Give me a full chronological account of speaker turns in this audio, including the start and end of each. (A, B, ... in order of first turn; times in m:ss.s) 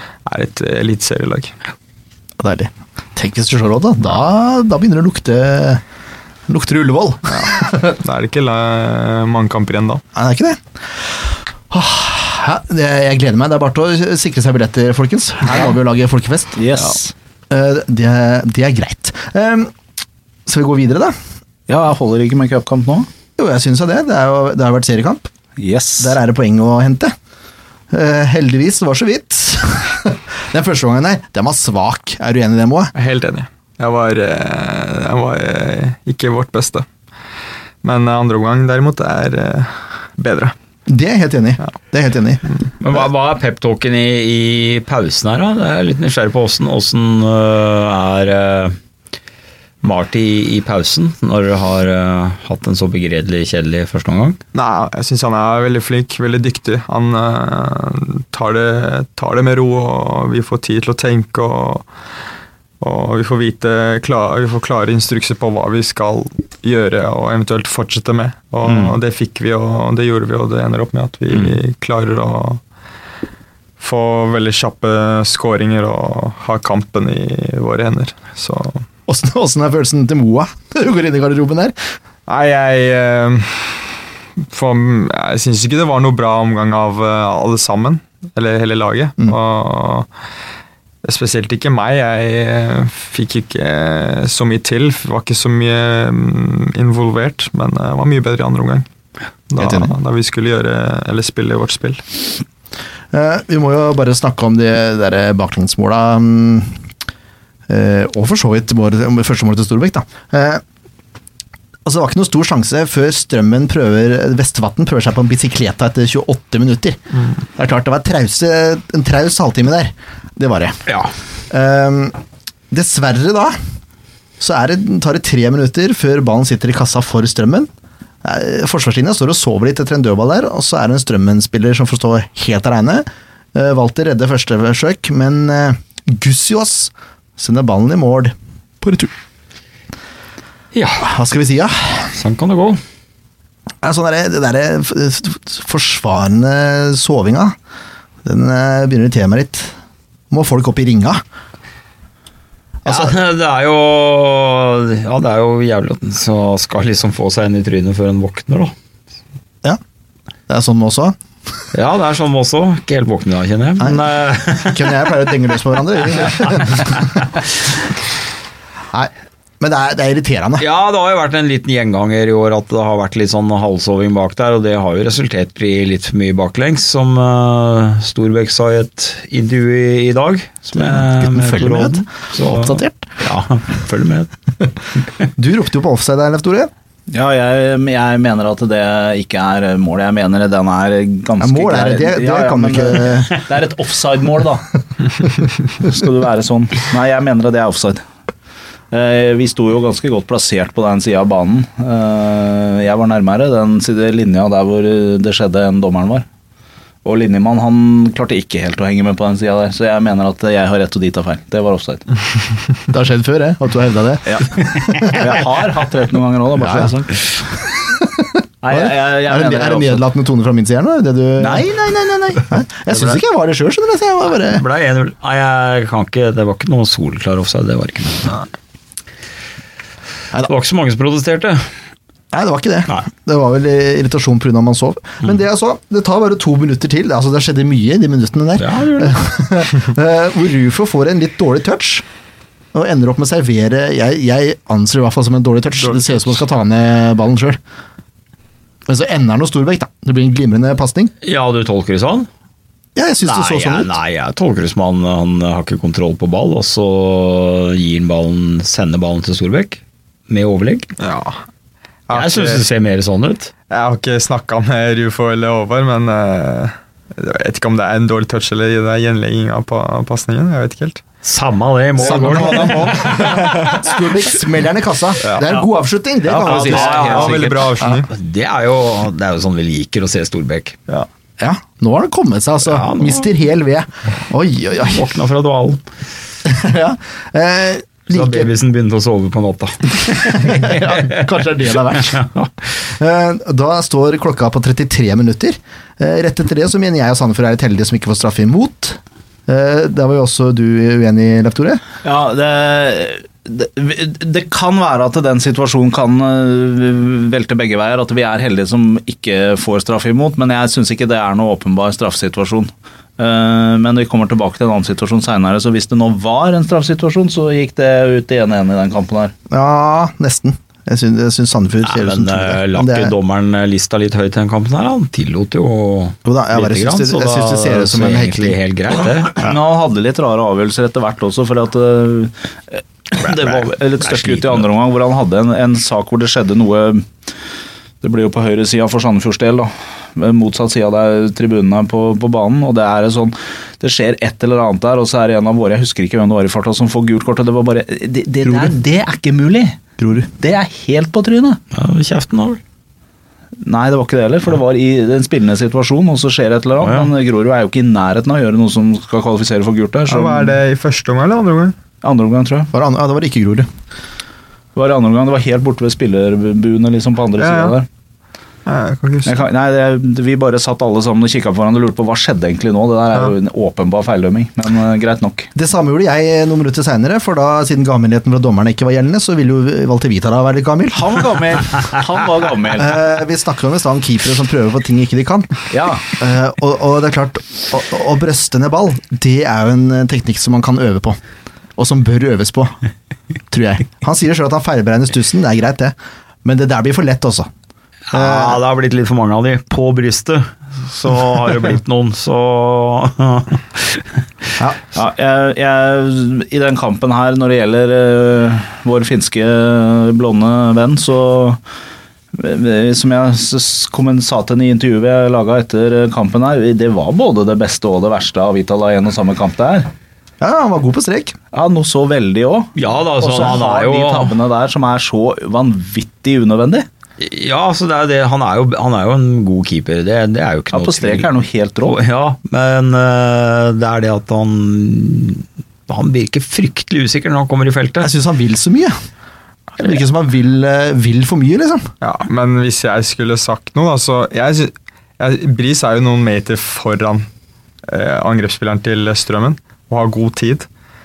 0:00.2-0:01.5 A
0:02.4-0:05.8 B
0:06.5-0:08.0 B
0:07.3-0:10.0 A
0:10.1-0:10.6 B
0:11.7-0:17.0 B
0:16.6-0:17.1 C
0:17.5-0:19.7 B
0:20.4-0:21.2 B
0:21.7-0:23.1 C
0:23.4-0:25.3 B
0:25.6-0:26.2 C
0:26.0-0:27.1 B
0:27.9-0:32.9 B
0:32.9-0:36.8 A
0:37.8-0:40.5 A
0:40.9-0:42.4 B
0:42.8-0:48.8 D
0:49.8-0:54.4 D
0:54.5-1:01.9 A
1:02.8-1:12.6 A
1:08.6-1:09.0 D
1:13.8-1:18.8 A
1:19.1-1:21.7 B
1:22.3-1:23.9 A
1:24.4-1:30.1 A
1:31.0-1:38.8 A
1:39.5-1:42.0 A
1:39.6-1:39.9 B
1:43.1-1:46.7 B
1:47.7-1:50.6 B
1:51.8-1:57.0 B
1:57.6-2:00.8 B
2:00.9-2:01.1 D
2:01.5-2:02.2 B
2:02.7-2:03.6 B
2:04.4-2:07.7 B
2:08.2-2:19.1 B
2:20.7-2:21.1 D
2:21.0-2:22.1 B
2:22.1-2:22.8 D
2:23.8-2:27.6 B
2:28.2-2:29.7 B
2:30.3-2:31.2 B
2:32.8-2:33.1 B
2:32.8-2:38.7 D
2:40.5-2:41.2 B
2:41.7-2:45.0 D
2:43.8-2:47.0 B
2:48.9-2:50.6 B
2:50.6-3:04.3 D
3:00.7-3:03.2 B
3:05.4-3:06.7 B
3:07.1-3:14.6 C
3:11.4-3:13.4 B
3:15.8-3:18.0 C
3:18.9-3:26.2 C
3:27.0-3:32.0 C
3:32.9-3:35.4 B
3:34.2-3:37.3 C
3:36.6-3:36.9 B
3:37.9-3:44.6 B
3:38.6-3:40.0 C
3:41.4-3:42.2 C
3:44.5-3:48.4 D
3:50.4-3:51.7 D
3:52.3-4:02.0 B
3:58.6-3:59.2 D
4:02.7-4:07.6 B
4:08.9-4:11.1 B
4:11.2-4:12.3 D
4:12.9-4:13.9 B
4:13.2-4:20.9 D
4:21.0-4:21.4 A
4:22.1-4:22.6 A
4:22.1-4:23.5 D
4:23.7-4:31.0 A
4:31.2-4:33.8 D
4:32.0-4:37.2 B
4:32.0-4:33.8 A
4:36.3-4:38.1 A
4:36.3-4:40.8 D
4:36.4-4:37.4 C
4:41.4-4:45.1 B
4:42.6-4:43.3 D
4:44.9-4:45.8 D
4:46.4-4:48.5 B
4:48.1-4:51.2 D
4:50.1-4:52.3 B
4:51.8-4:52.5 D
4:52.9-5:01.8 B
5:02.0-5:19.3 C
5:19.5-5:23.1 B
5:21.8-5:29.4 D
5:26.2-5:28.6 B
5:29.3-5:37.1 C
5:33.2-5:34.6 D
5:38.0-5:51.6 C
5:48.4-5:48.7 B
5:50.0-5:50.3 B
5:51.7-5:52.6 D
5:53.6-6:00.6 C
5:56.8-5:57.1 D
6:00.1-6:01.8 A
6:02.0-6:02.7 C
6:02.7-6:03.7 B
6:04.8-6:07.8 C
6:07.4-6:07.8 A
6:08.6-6:09.4 A
6:09.2-6:15.5 C
6:15.5-6:21.2 B
6:20.9-6:23.0 C
6:22.8-6:25.5 B
6:25.7-6:26.0 C
6:26.1-6:31.2 B
6:31.8-6:32.8 B
6:33.5-6:37.5 B
6:38.1-6:44.2 D
6:38.1-6:38.6 B
6:44.9-6:51.6 C
6:52.3-6:59.9 C
7:00.4-7:01.3 B
7:01.5-7:06.9 C
7:02.8-7:04.4 D
7:07.2-7:11.3 D
7:10.7-7:12.0 C
7:11.8-7:18.1 D
7:18.0-7:19.0 B
7:19.8-7:21.9 B
7:22.0-7:27.3 A
7:27.9-7:30.7 A